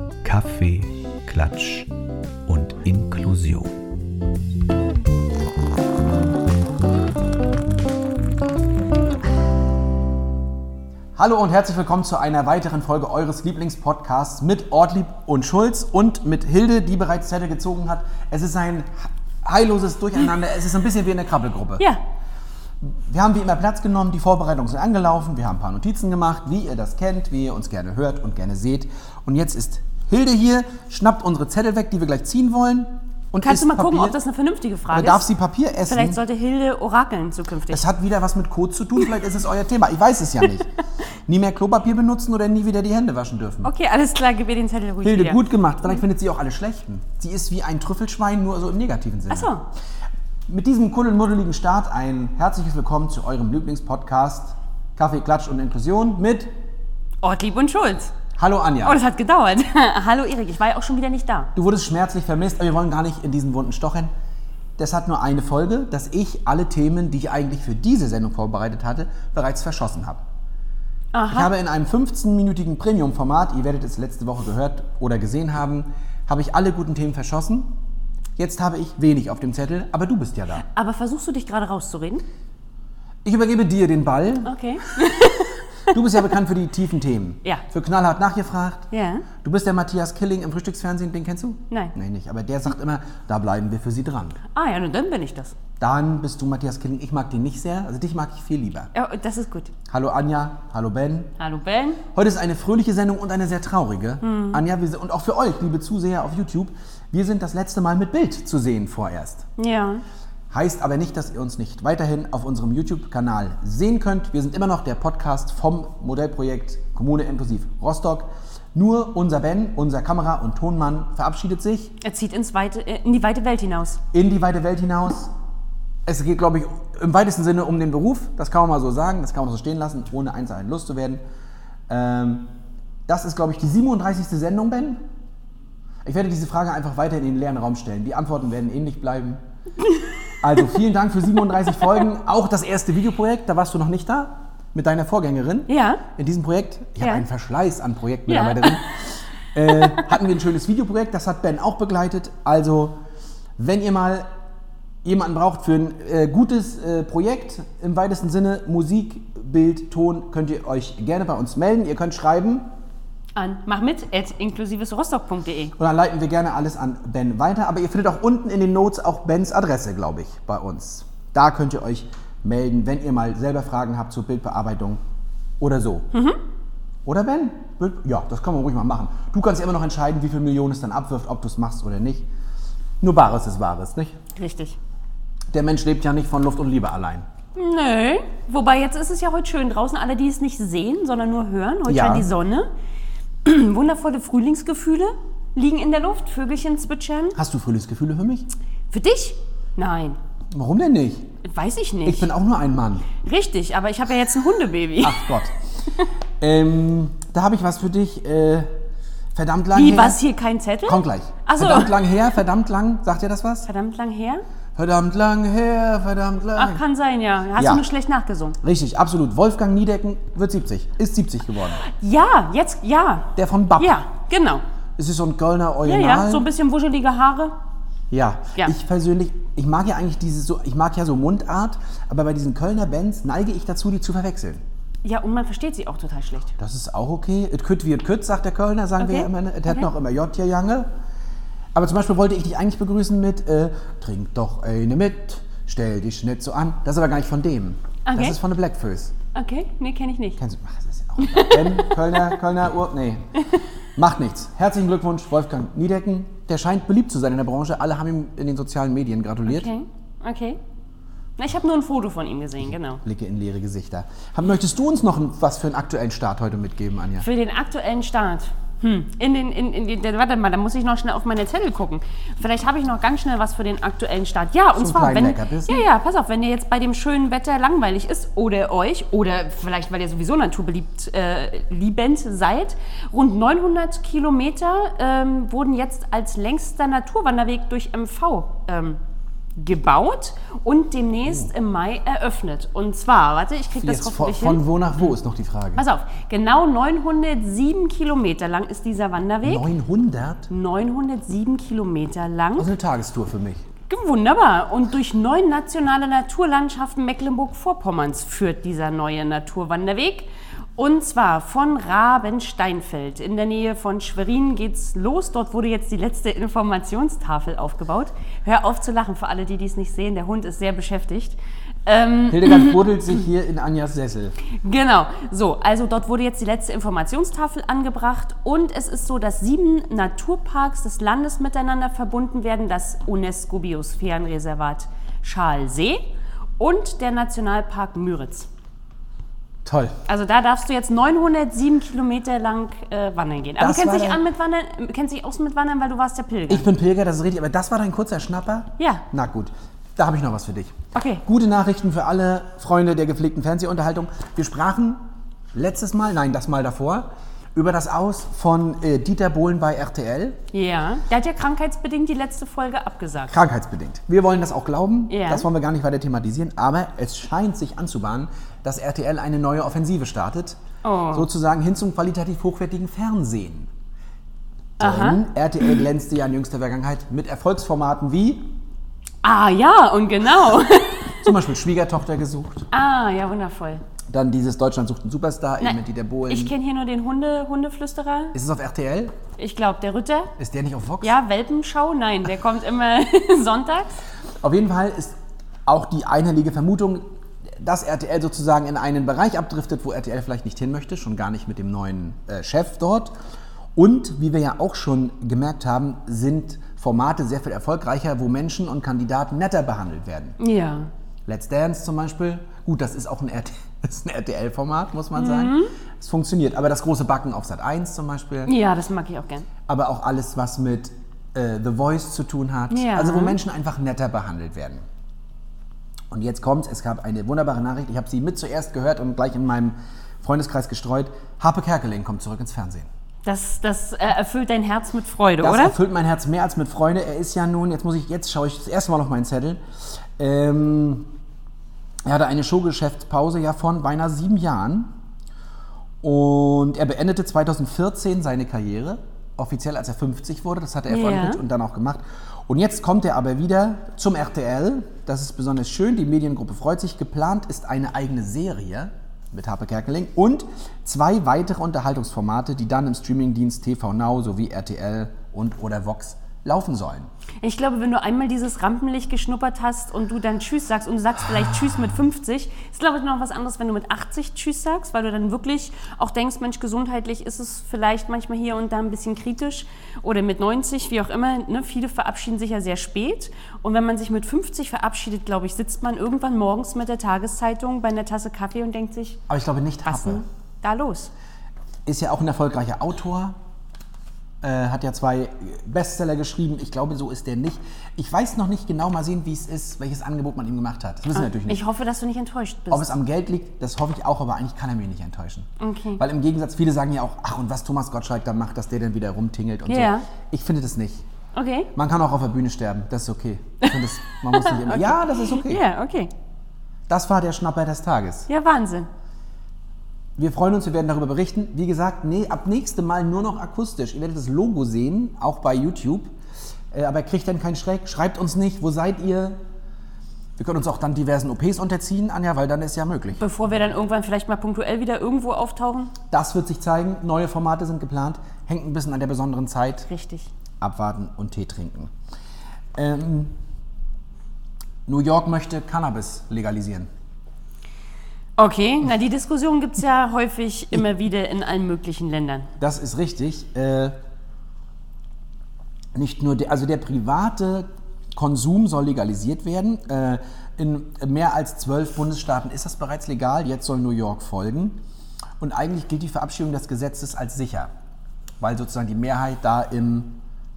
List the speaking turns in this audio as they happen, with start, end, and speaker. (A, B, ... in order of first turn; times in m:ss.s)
0:00.2-0:01.9 A
0:02.4-0:03.8 A
0:11.2-0:21.8 B
0:22.8-0:34.2 B
0:33.4-0:35.2 C
0:34.9-0:36.2 B
0:35.8-0:37.8 C
0:37.7-0:40.7 B
0:41.3-0:43.7 B
0:43.6-0:45.4 C
0:45.0-0:49.5 B
0:49.3-0:49.6 C
0:50.5-0:56.5 B
0:57.2-0:58.1 C
0:58.4-0:59.0 B
0:58.8-1:01.5 C
1:01.5-1:04.1 B
1:04.8-1:10.2 B
1:11.1-1:11.5 C
1:11.3-1:17.8 B
1:18.4-1:20.6 B
1:20.7-1:22.2 C
1:23.2-1:24.5 B
1:24.4-1:25.9 C
1:25.9-1:28.8 B
1:28.9-1:29.2 C
1:29.4-1:34.4 B
1:34.5-1:35.5 C
1:35.8-1:38.9 B
1:38.9-1:39.7 C
1:39.9-1:41.3 B
1:41.4-1:42.0 C
1:42.1-1:49.4 B
1:44.2-1:44.6 C
1:49.6-1:50.0 C
1:50.5-2:01.9 B
2:02.0-2:04.0 C
2:04.1-2:05.3 B
2:06.0-2:11.2 B
2:11.9-2:12.5 B
2:13.1-2:15.0 B
2:16.0-2:19.4 B
2:20.4-2:33.0 B
2:25.7-2:26.0 C
2:28.3-2:28.8 C
2:29.7-2:30.1 C
2:33.6-2:34.3 B
2:35.0-2:42.6 B
2:43.4-2:45.7 C
2:45.8-2:55.0 B
2:55.6-2:56.1 B
2:56.1-2:56.4 C
2:57.0-3:02.3 B
3:03.0-3:04.2 B
3:04.3-3:04.8 C
3:05.5-3:07.2 B
3:07.5-3:12.7 C
3:11.9-3:12.3 B
3:13.4-3:17.4 C
3:17.4-3:18.5 B
3:18.9-3:20.2 C
3:20.5-3:21.3 B
3:21.4-3:22.3 C
3:22.0-3:23.1 B
3:23.2-3:25.3 C
3:25.0-3:25.5 B
3:26.4-3:28.8 B
3:29.3-3:30.2 B
3:29.7-3:31.9 C
3:30.8-3:33.7 B
3:33.6-3:34.4 C
3:34.8-3:36.8 B
3:36.6-3:38.6 C
3:37.6-3:37.8 B
3:38.6-3:41.8 B
3:41.8-3:44.6 C
3:43.4-3:44.0 B
3:45.0-3:46.4 B
3:45.8-3:47.5 C
3:48.1-3:54.6 B
3:55.0-3:56.5 C
3:56.6-4:00.9 B
3:59.0-3:59.8 C
4:01.7-4:09.1 B
4:08.0-4:08.4 C
4:09.3-4:10.4 C
4:10.4-4:13.2 B
4:11.2-4:11.9 C
4:14.0-4:19.7 B
4:19.5-4:20.6 C
4:21.4-4:23.0 C
4:23.0-4:27.2 B
4:27.2-4:49.0 C
4:34.8-4:35.8 B
4:49.6-4:54.6 C
4:53.8-4:55.8 B
4:55.8-4:59.6 C
4:59.4-5:00.5 B
5:00.5-5:02.7 C
5:02.6-5:03.6 B
5:03.9-5:22.8 C
5:22.3-5:24.4 B
5:24.5-5:36.1 C
5:36.6-5:38.5 C
5:39.6-5:40.0 B
5:40.0-5:46.7 C
5:43.6-5:44.2 B
5:46.5-6:00.4 B
5:48.8-5:49.0 C
5:50.9-5:51.2 C
6:00.5-6:03.3 C
6:03.3-6:10.6 B
6:05.1-6:05.4 C
6:10.8-6:11.3 C
6:11.1-6:13.7 B
6:14.8-6:15.2 C
6:14.8-6:18.5 B
6:19.2-6:21.3 C
6:21.2-6:22.7 B
6:22.7-6:23.8 C
6:24.1-6:26.5 B
6:25.6-6:28.3 C
6:28.3-6:29.2 B
6:29.4-6:30.3 C
6:30.4-6:31.2 B
6:31.0-6:34.0 C
6:34.4-6:37.0 B
6:37.6-6:43.1 B
6:43.8-6:50.4 B
6:50.4-6:50.9 C
6:51.2-6:58.5 B
6:55.1-6:55.7 C
6:58.4-6:59.5 C
6:59.7-7:04.8 B
7:02.7-7:03.4 C
7:06.1-7:12.9 B
7:13.2-7:15.8 C
7:15.4-7:19.6 B
7:20.2-7:21.1 B
7:22.0-7:24.9 B
7:26.0-7:47.1 B
7:30.9-7:31.4 C
7:47.4-8:09.2 C
8:09.3-8:10.2 B
8:09.8-8:11.1 C
8:11.8-8:13.4 B
8:14.4-8:21.6 B
8:21.1-8:22.9 C
8:22.7-8:31.0 B
8:25.6-8:26.0 C
8:29.6-8:30.0 C
8:31.3-8:31.7 C
8:31.7-8:35.6 B
8:34.3-8:36.1 C
8:36.9-8:38.3 B
8:38.3-8:38.9 C
8:40.2-8:46.1 B
8:46.7-8:49.4 B
8:50.4-8:53.2 B
8:53.2-8:55.9 C
8:56.1-8:59.9 B
8:59.9-9:00.3 C
9:00.6-9:01.9 B
9:02.7-9:03.3 B
9:04.8-9:06.9 B
9:08.4-9:12.5 C
9:12.6-9:13.9 B
9:15.9-9:24.8 B
9:25.4-9:27.7 B
9:28.4-9:30.2 B